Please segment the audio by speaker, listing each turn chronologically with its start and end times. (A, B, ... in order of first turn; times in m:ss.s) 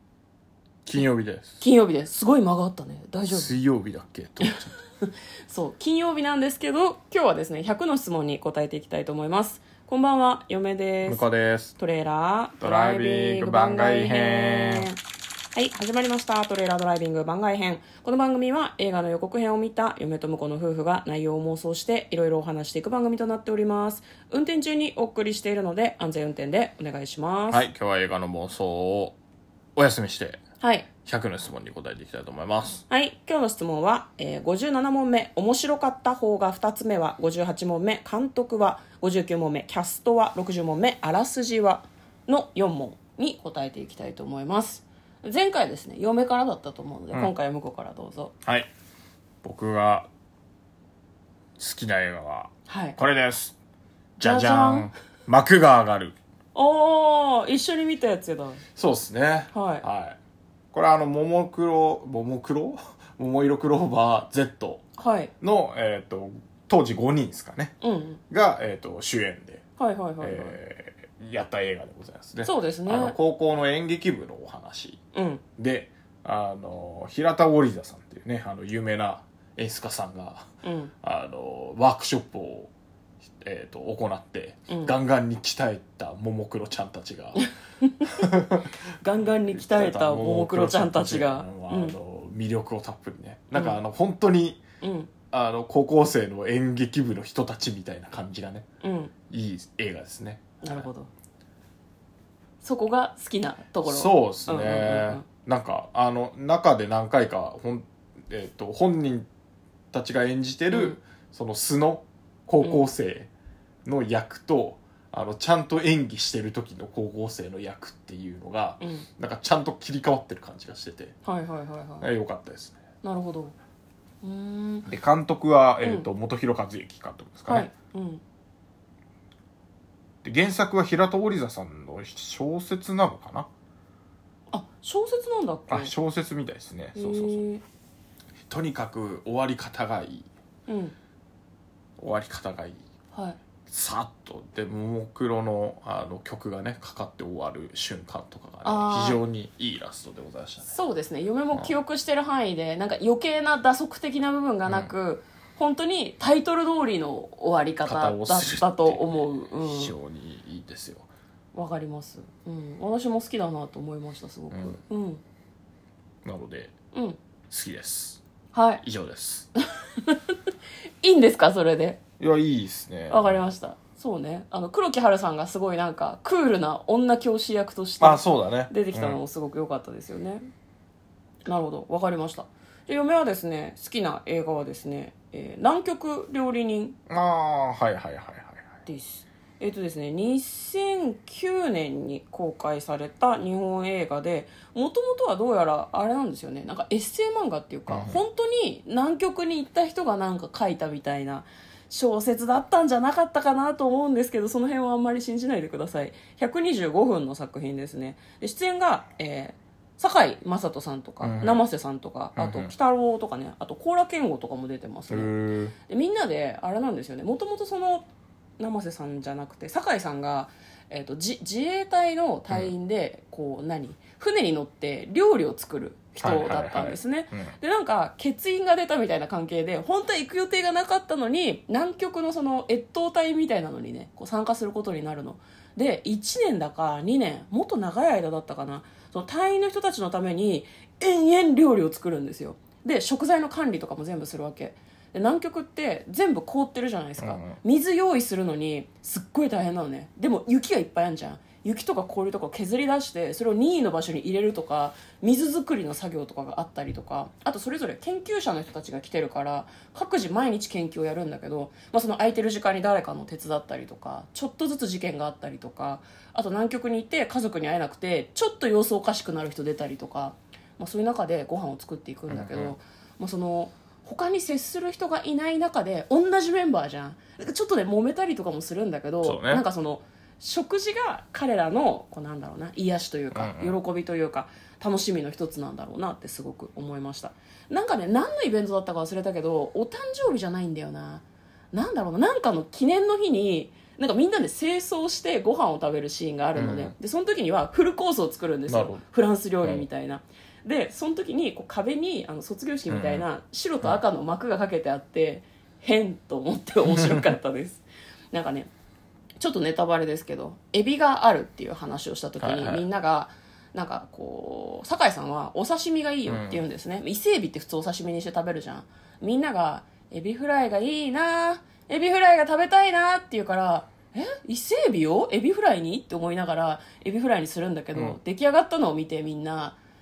0:00.8-0:01.6 A
0:01.6-0:03.5 B
0:03.3-0:04.7 A
0:04.4-0:11.2 B
0:11.0-0:11.8 A
0:11.8-0:15.0 B
0:12.6-0:14.9 A
0:15.5-0:27.6 B
0:27.5-0:29.2 A
0:29.8-0:30.4 A
0:30.6-0:30.9 B
0:31.0-0:32.8 A
0:32.9-0:48.3 B
0:48.4-0:48.7 A
0:49.4-0:50.1 A
0:51.6-0:53.6 A
0:52.7-0:53.0 B
0:54.2-0:56.2 A
0:54.2-0:54.9 B
0:56.6-0:58.6 B
0:58.8-1:00.2 A
0:59.5-0:59.8 B
1:00.7-1:04.8 A
1:05.0-1:05.3 B
1:05.4-1:07.8 A
1:07.8-1:08.2 B
1:08.3-1:09.6 A
1:09.8-1:10.6 B
1:10.2-1:15.0 A
1:12.4-1:13.2 B
1:15.1-1:15.4 B
1:15.6-1:20.5 A
1:20.6-1:20.9 B
1:21.0-1:22.7 A
1:23.4-1:27.4 A
1:27.4-1:28.0 B
1:28.0-1:28.7 A
1:29.0-1:32.0 B
1:29.5-1:34.6 A
1:33.5-1:33.8 B
1:34.8-1:35.1 B
1:35.3-1:38.6 A
1:38.8-1:39.1 B
1:39.3-1:40.9 A
1:40.6-1:41.1 B
1:42.6-1:45.3 B
1:43.8-1:49.3 A
1:49.9-1:53.3 A
1:50.7-1:51.0 B
1:52.6-1:52.9 B
1:53.8-2:01.2 A
1:58.8-1:59.1 B
2:01.2-2:02.1 B
2:02.0-2:02.8 A
2:03.0-2:03.5 B
2:04.2-2:04.9 B
2:04.9-2:07.7 A
2:07.5-2:08.2 B
2:10.2-2:13.5 A
2:14.5-2:15.9 B
2:15.7-2:17.4 A
2:17.0-2:17.6 B
2:18.5-2:20.3 A
2:20.7-2:21.0 B
2:22.0-2:22.8 A
2:23.1-2:23.4 B
2:23.7-2:30.8 A
2:28.6-2:29.2 B
2:30.7-2:39.9 B
2:34.6-2:34.9 A
2:37.8-2:41.1 A
2:41.5-2:45.2 B
2:44.5-2:44.8 A
2:46.2-2:46.7 A
2:46.9-2:47.2 B
2:47.5-2:48.2 A
2:48.5-2:48.8 B
2:48.8-2:49.5 A
2:50.0-2:50.4 B
2:51.0-2:52.0 B
2:52.2-2:53.4 A
2:53.1-3:00.5 B
2:58.0-2:59.2 A
3:01.5-3:07.0 B
3:07.1-3:08.8 A
3:08.9-3:35.3 B
3:17.9-3:18.2 A
3:31.2-3:31.6 A
3:32.4-3:32.7 A
3:35.1-3:35.8 A
3:35.8-3:38.1 B
3:38.6-5:08.7 B
3:46.2-3:47.5 A
4:07.2-4:07.6 A
4:32.3-4:32.7 A
4:39.2-4:39.6 A
4:43.3-4:43.8 A
4:56.6-4:56.9 A
4:58.7-4:59.0 A
5:02.9-5:03.3 A
5:09.4-5:29.8 B
5:12.4-5:12.8 A
5:16.3-5:16.6 A